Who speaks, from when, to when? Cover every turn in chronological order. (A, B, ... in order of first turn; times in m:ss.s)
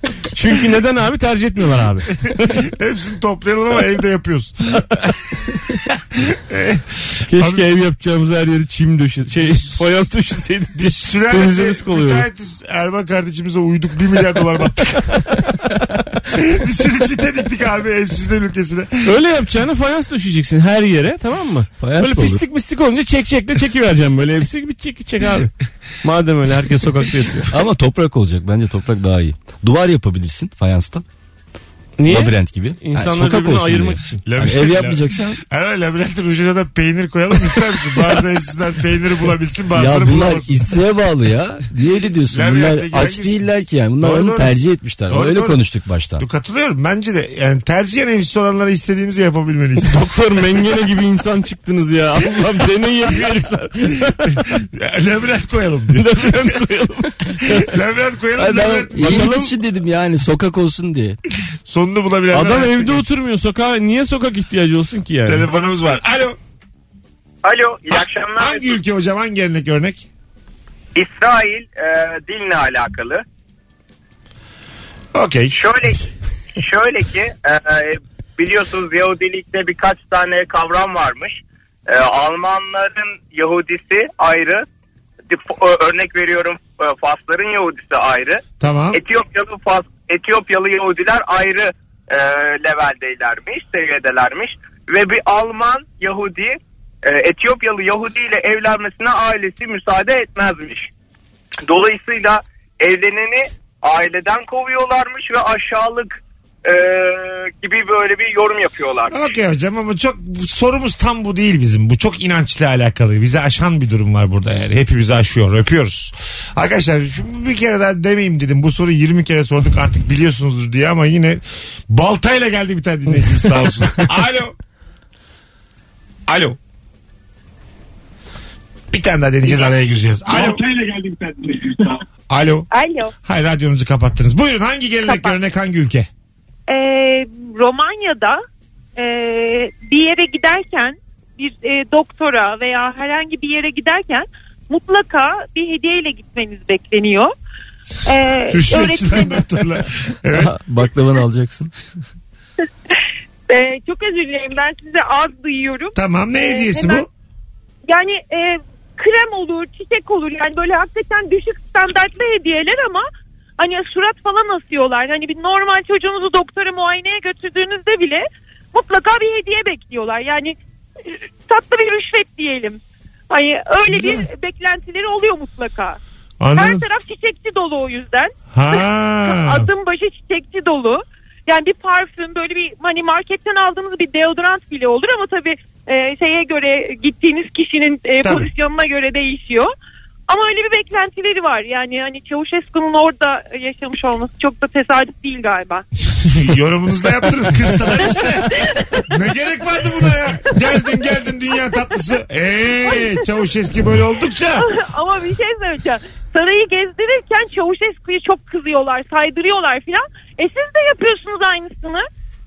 0:00.3-0:02.6 A
0:02.6-0:05.4 B
0:06.2-0:07.6 B
0:07.3-0:12.2 A
0:10.8-0:15.4 B
0:16.3-0:19.1 B
0:19.0-0:27.5 A
0:21.8-0:22.4 C
0:27.5-0:31.0 C
0:32.0-0:34.2 A
0:32.1-0:35.4 C
0:34.3-0:40.6 B
0:39.7-0:46.2 C
0:42.3-0:43.4 B
0:44.0-0:44.5 B
0:45.1-0:45.6 B
0:46.2-0:50.0 B
0:49.8-0:54.4 A
0:54.1-0:56.5 B
0:55.9-0:57.7 A
0:57.3-0:59.3 B
0:58.4-1:01.2 C
0:59.0-0:59.5 A
1:01.6-1:03.1 B
1:02.3-1:05.5 A
1:05.3-1:06.4 B
1:07.4-1:08.8 D
1:07.9-1:10.0 B
1:10.9-1:13.2 D
1:15.1-1:15.6 B
1:15.5-1:16.0 D
1:16.6-1:24.6 D
1:25.3-1:28.4 D
1:28.6-1:29.0 B
1:28.9-1:40.9 D
1:41.6-1:49.3 D
1:49.1-2:04.5 B
2:03.5-2:03.8 A
2:06.3-2:06.6 B
2:08.9-2:10.6 B
2:12.3-2:12.7 B
2:12.7-2:13.1 E
2:13.2-2:16.1 B
2:15.0-2:15.4 E
2:16.7-2:18.4 E
2:19.0-2:27.3 E
2:28.0-2:29.4 E
2:28.5-2:30.5 B
2:30.3-2:31.7 C
2:33.5-2:37.0 E
2:36.0-2:37.1 B
2:37.9-2:43.0 E
2:43.6-2:52.8 E
2:53.3-2:56.0 E
2:53.9-2:54.2 B
2:56.4-2:56.8 B
2:56.5-3:09.7 E
2:58.5-2:59.7 B
3:08.2-3:08.5 B
3:10.3-3:15.8 E
3:16.2-3:24.7 B
3:18.6-3:19.1 E
3:24.6-3:32.0 E